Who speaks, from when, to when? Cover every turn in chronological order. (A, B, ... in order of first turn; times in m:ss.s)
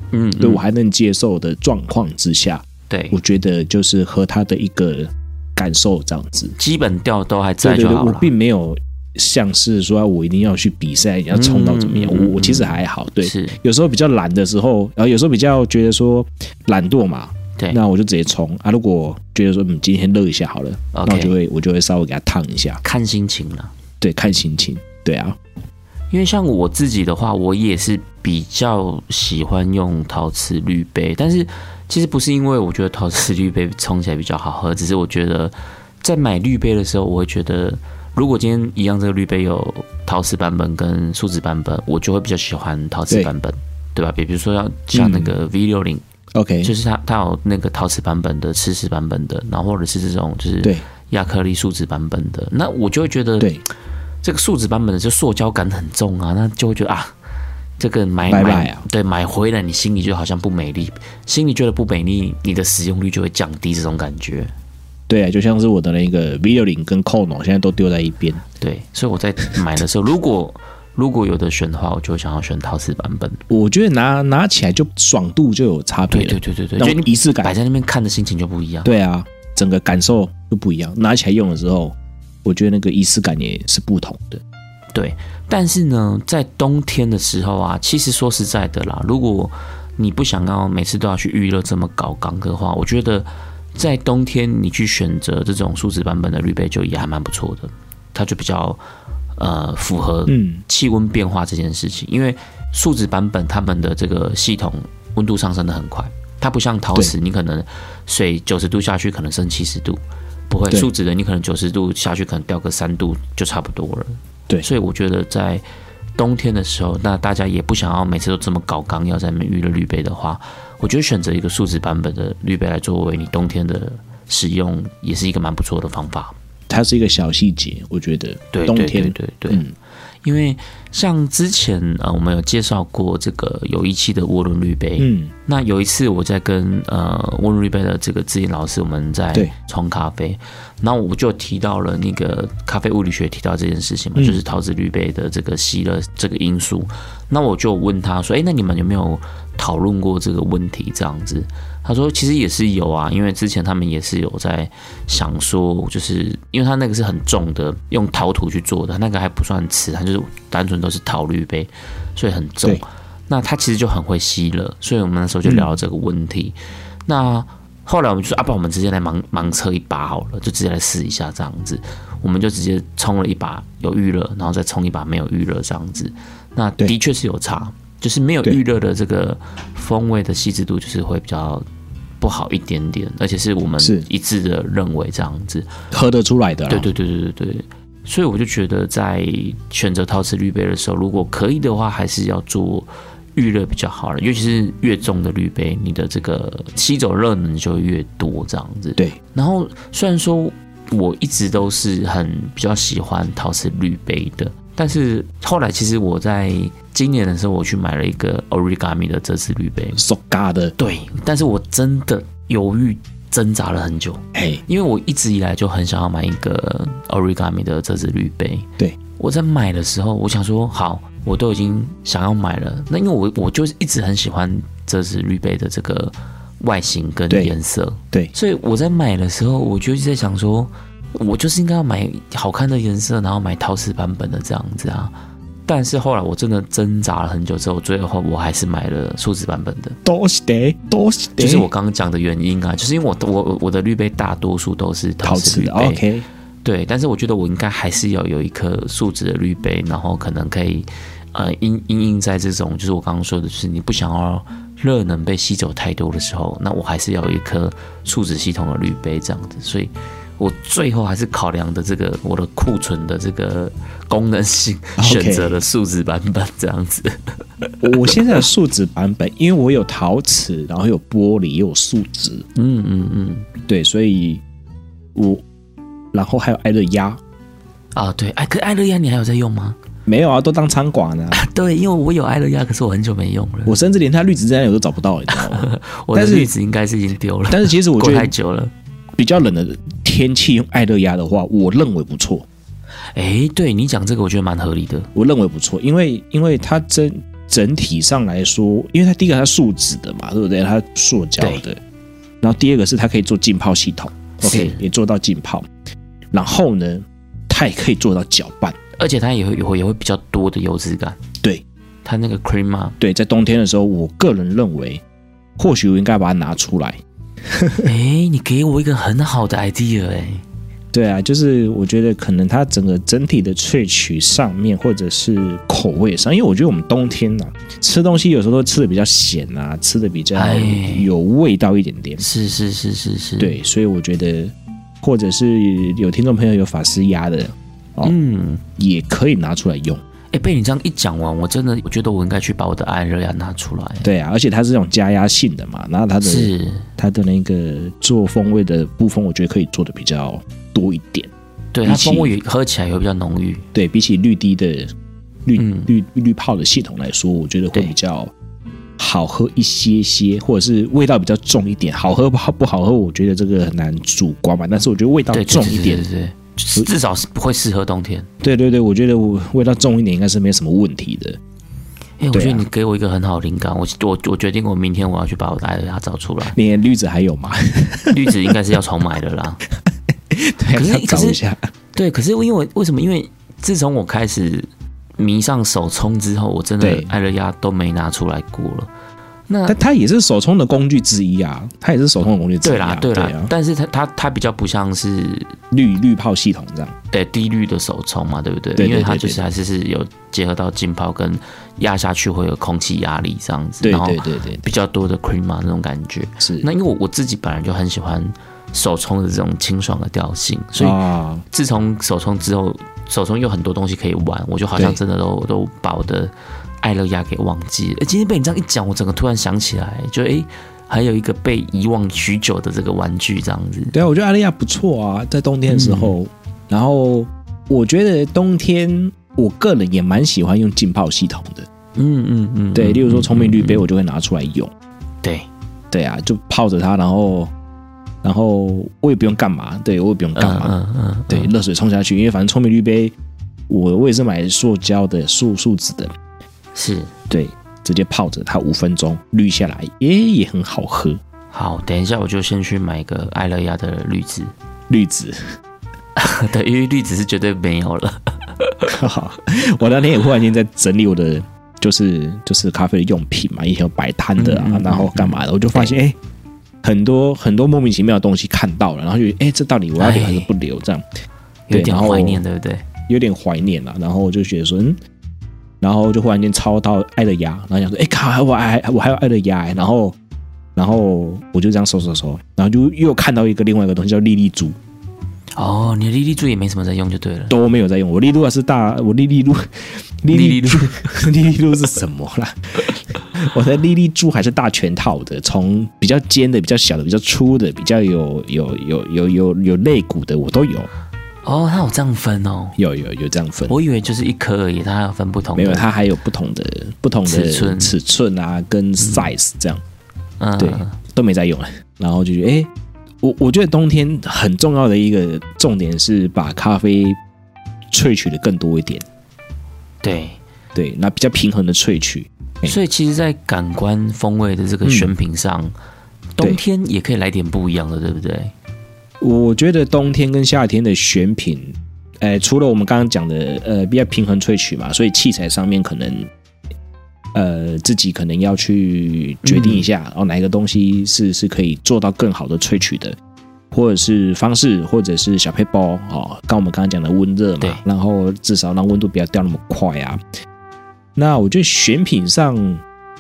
0:00.1-0:00.6 A
0:00.4-0:06.6 B
0:02.9-0:03.2 A
0:06.6-0:08.3 A
0:07.6-0:22.8 B
0:11.3-0:13.6 A
0:20.9-0:21.4 A
0:22.8-0:23.7 A
0:24.0-0:25.4 B
0:26.1-0:46.0 A
0:44.9-0:45.3 B
0:46.4-0:46.7 B
0:46.6-0:53.5 A
0:54.2-0:57.1 A
0:57.8-1:04.5 A
0:58.3-0:58.8 B
1:05.1-1:08.4 B
1:08.6-1:13.4 A
1:13.5-1:17.5 B
1:16.1-1:18.9 A
1:18.8-1:24.4 B
1:24.9-1:38.8 A
1:39.4-1:55.6 A
1:40.3-1:40.6 B
1:56.2-2:06.4 A
2:06.7-2:09.7 B
2:08.5-2:09.6 A
2:10.2-3:01.6 A
2:15.0-2:15.3 B
2:45.4-2:45.7 B
3:02.2-3:05.7 A
3:03.8-3:04.1 B
3:05.9-3:06.9 B
3:06.7-3:30.0 A
3:30.0-3:30.8 B
3:30.8-3:55.1 A
3:34.3-3:34.6 B
3:47.3-3:47.6 B
3:55.7-4:00.0 A
4:00.0-4:01.7 B
4:01.4-4:06.0 A
4:05.2-4:06.2 B
4:06.6-4:28.4 A
4:25.0-4:25.6 B
4:27.8-4:32.5 B
4:32.6-4:33.5 A
4:33.7-4:34.4 B
4:35.2-4:35.4 B
4:36.1-4:37.2 B
4:38.0-4:39.8 A
4:40.1-4:41.4 B
4:41.3-4:43.8 A
4:43.7-4:46.5 B
4:45.3-4:48.7 A
4:47.5-4:48.3 B
4:49.2-4:52.5 B
4:53.1-4:55.1 A
4:55.2-5:01.8 B
5:02.4-5:05.7 B
5:04.4-5:04.8 A
5:06.3-5:08.8 B
5:09.0-5:11.2 A
5:12.0-5:13.0 A
5:13.0-5:15.0 B
5:15.6-5:17.0 B
5:17.5-5:17.9 B
5:17.8-5:20.4 A
5:20.9-5:32.2 B
5:30.4-5:31.1 A
5:32.2-5:33.6 A
5:33.4-5:38.2 B
5:38.0-5:38.6 A
5:38.8-5:40.0 B
5:40.3-5:44.1 A
5:44.0-5:51.3 B
5:46.2-5:46.9 A
5:51.7-5:53.6 A
5:51.8-5:52.3 B
5:53.7-5:54.9 B
5:55.5-5:58.3 B
5:55.6-5:55.9 A
5:59.0-6:06.1 B
6:05.3-6:08.3 A
6:08.4-6:11.4 B
6:12.2-6:16.6 A
6:12.3-6:12.6 B
6:16.5-6:18.5 B
6:18.1-6:19.6 A
6:20.3-6:21.6 B
6:20.7-6:21.4 A
6:21.9-6:28.9 A
6:26.8-6:27.1 B
6:29.5-6:29.8 A
6:29.7-6:33.5 B
6:32.6-6:35.6 A
6:35.7-6:37.0 B
6:37.1-6:51.0 A
6:38.8-6:39.4 B
6:43.8-6:44.6 B
6:46.4-6:46.7 B
6:50.8-6:51.4 B
6:51.5-7:03.9 A
7:03.9-7:11.7 B
7:05.7-7:06.2 A
7:12.0-7:13.9 A
7:12.7-7:14.7 B
7:15.2-7:15.5 A
7:15.9-7:17.5 B
7:18.2-7:20.8 B
7:20.4-7:21.5 A
7:21.3-7:23.2 B
7:23.7-7:26.1 B
7:26.7-7:27.1 A
7:27.3-7:31.2 B
7:31.5-7:34.5 A
7:34.9-7:35.4 B
7:36.2-7:38.9 A
7:38.9-7:46.2 B
7:44.4-7:45.9 A
7:46.8-7:51.0 B
7:50.0-7:50.5 A
7:51.7-7:52.8 A
7:51.7-7:52.4 B
7:53.1-7:55.0 B
7:55.8-8:00.2 B
8:00.8-8:04.8 B
8:05.6-8:07.6 A
8:07.5-8:20.9 B
8:10.3-8:11.1 A
8:21.4-8:22.8 A
8:22.8-8:23.8 B
8:23.7-8:25.9 A
8:25.6-8:29.8 B
8:27.3-8:28.0 A
8:29.0-8:29.3 A
8:30.4-8:30.9 A
8:30.6-8:32.7 B
8:33.2-8:37.2 B
8:37.9-8:39.0 B
8:40.0-8:40.4 A
8:40.8-8:42.8 B
8:42.6-8:45.7 A
8:44.8-8:45.1 B
8:46.4-8:48.5 A
8:49.2-8:56.3 B
8:57.3-9:03.2 B
8:59.4-8:59.9 A
9:03.7-9:10.2 B
9:11.2-9:12.8 B